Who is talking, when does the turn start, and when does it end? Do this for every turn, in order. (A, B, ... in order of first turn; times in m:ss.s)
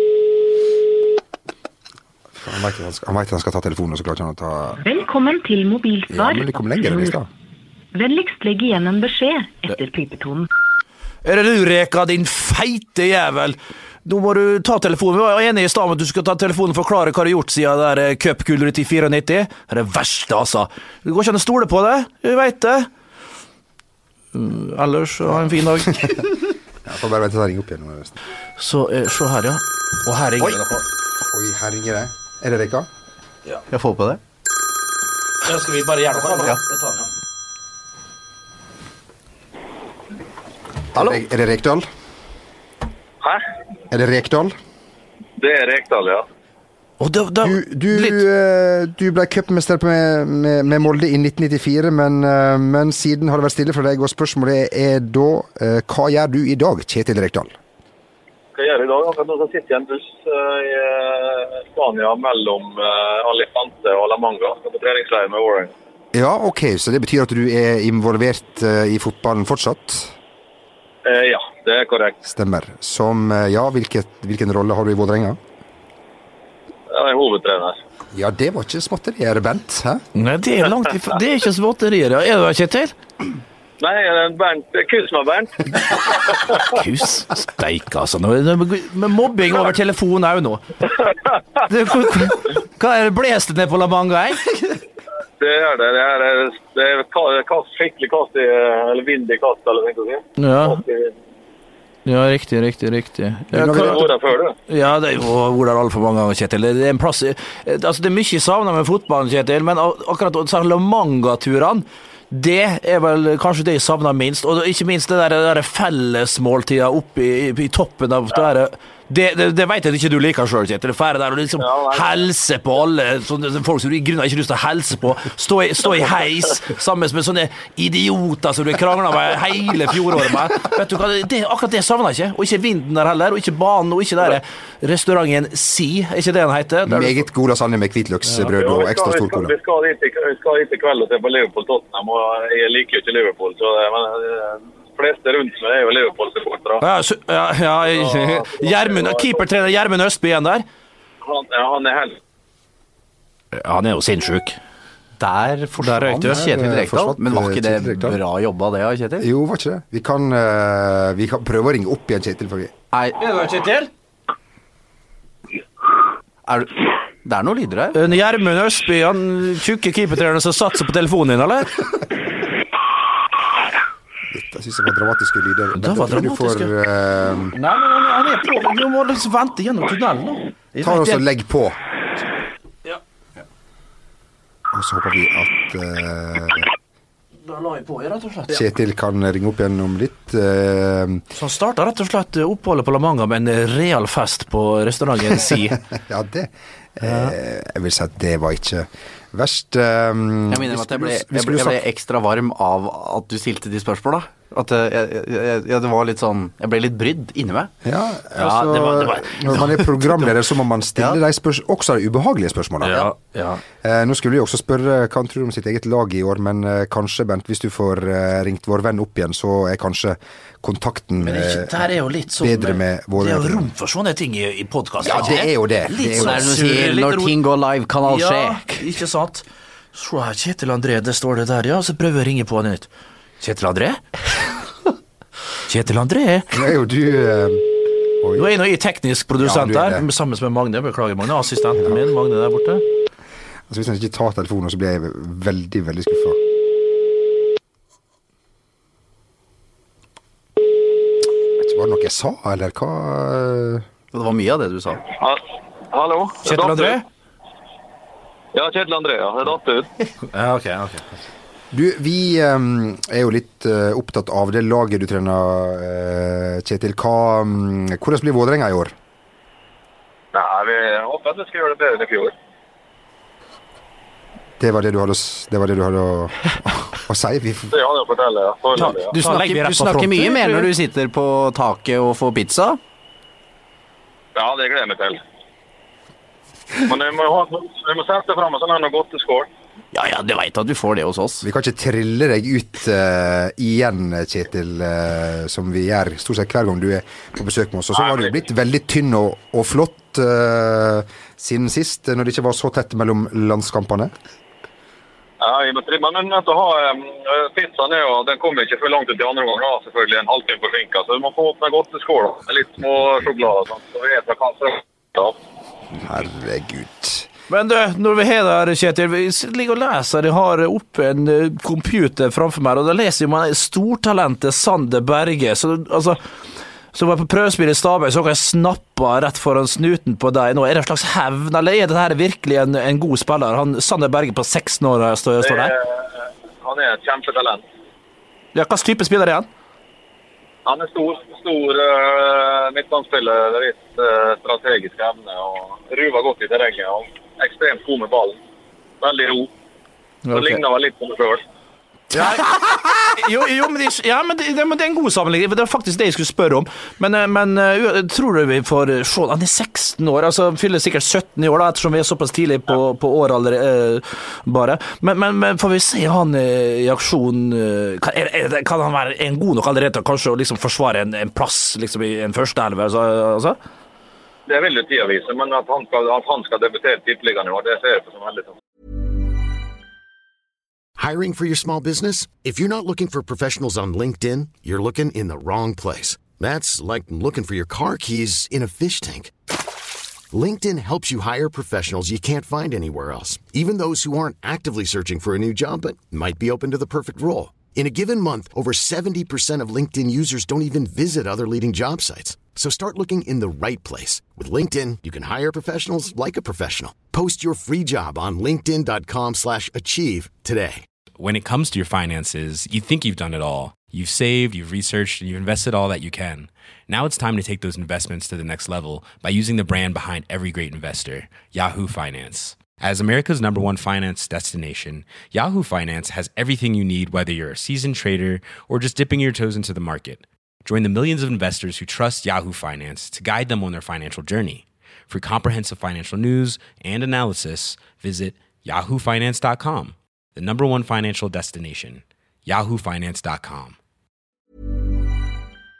0:02.3-0:04.8 A
0:04.8-0:07.2 B
0:06.1-0:07.3 A
0:07.9-0:10.5 B
0:11.2-0:22.9 C
0:24.3-0:26.3 C
0:25.9-0:26.2 A
0:26.8-0:28.1 A
0:28.6-0:30.8 C
0:31.3-0:32.9 A
0:33.7-0:34.2 D
0:35.4-0:37.1 C
0:36.3-0:36.6 D
0:40.9-0:41.9 A
0:43.9-0:44.5 A
0:45.4-0:46.2 E
0:47.0-0:48.2 C
0:47.4-0:57.6 A
0:58.5-1:05.7 E
1:06.1-1:10.1 A
1:11.0-1:12.2 E
1:12.2-1:15.4 A
1:16.9-1:17.8 E
1:18.1-1:20.0 A
1:20.1-1:22.9 C
1:23.8-1:26.6 E
1:26.6-1:30.6 C
1:31.7-1:34.8 C
1:35.4-1:41.1 E
1:40.4-1:40.8 C
1:42.0-1:44.0 C
1:43.5-1:43.9 A
1:43.7-1:44.5 E
1:44.7-2:17.2 C
2:01.6-2:02.2 E
2:16.9-2:19.5 A
2:18.6-2:26.8 E
2:26.8-2:30.6 C
2:27.9-2:29.4 E
2:31.2-2:32.2 E
2:33.5-2:34.6 C
2:35.2-2:39.3 D
2:35.8-2:36.4 C
2:36.2-2:38.2 A
2:39.2-2:42.7 A
2:42.9-2:43.2 D
2:43.2-2:43.9 C
2:46.5-2:48.0 D
2:47.9-2:51.8 C
2:54.3-2:57.6 A
2:55.8-2:56.7 C
2:57.5-3:01.2 C
3:00.8-3:01.8 A
3:04.7-3:06.7 A
3:07.4-3:08.6 C
3:08.5-3:11.2 A
3:11.3-3:15.8 C
3:15.2-3:21.8 A
3:20.5-3:27.7 D
3:27.8-3:33.1 A
3:28.4-3:29.9 C
3:32.8-3:33.6 C
3:33.8-3:43.7 A
3:41.2-3:47.4 C
3:45.0-3:46.6 A
3:46.2-3:48.6 D
3:48.0-3:49.4 C
3:49.9-3:52.9 C
3:53.4-3:54.0 C
3:55.6-3:56.5 C
3:56.5-3:57.6 A
3:58.2-3:58.5 A
3:58.4-4:02.8 C
3:59.4-4:00.0 A
4:03.7-4:06.4 A
4:11.6-4:13.8 A
4:14.1-4:15.0 D
4:15.2-4:17.0 E
4:16.4-4:17.0 C
4:18.5-4:19.9 E
4:20.3-4:21.2 C
4:21.7-4:28.9 A
4:30.3-4:32.3 E
4:34.6-4:37.7 A
4:37.7-4:39.1 E
4:38.8-4:40.7 C
4:39.1-4:42.8 D
4:44.3-4:45.2 E
4:46.8-4:49.5 E
4:49.9-4:51.5 D
4:51.4-5:04.1 A
4:58.0-4:58.3 E
5:05.4-5:15.4 E
5:16.0-5:17.3 A
5:17.5-5:26.2 C
5:26.9-5:35.7 C
5:35.4-5:37.6 E
5:38.5-5:39.5 C
5:40.6-5:48.4 E
5:49.0-5:49.5 E
5:50.3-5:51.4 E
5:52.1-6:13.6 C
6:14.5-6:18.5 E
6:21.0-6:29.3 F
6:30.3-6:50.8 F
6:51.2-7:23.8 G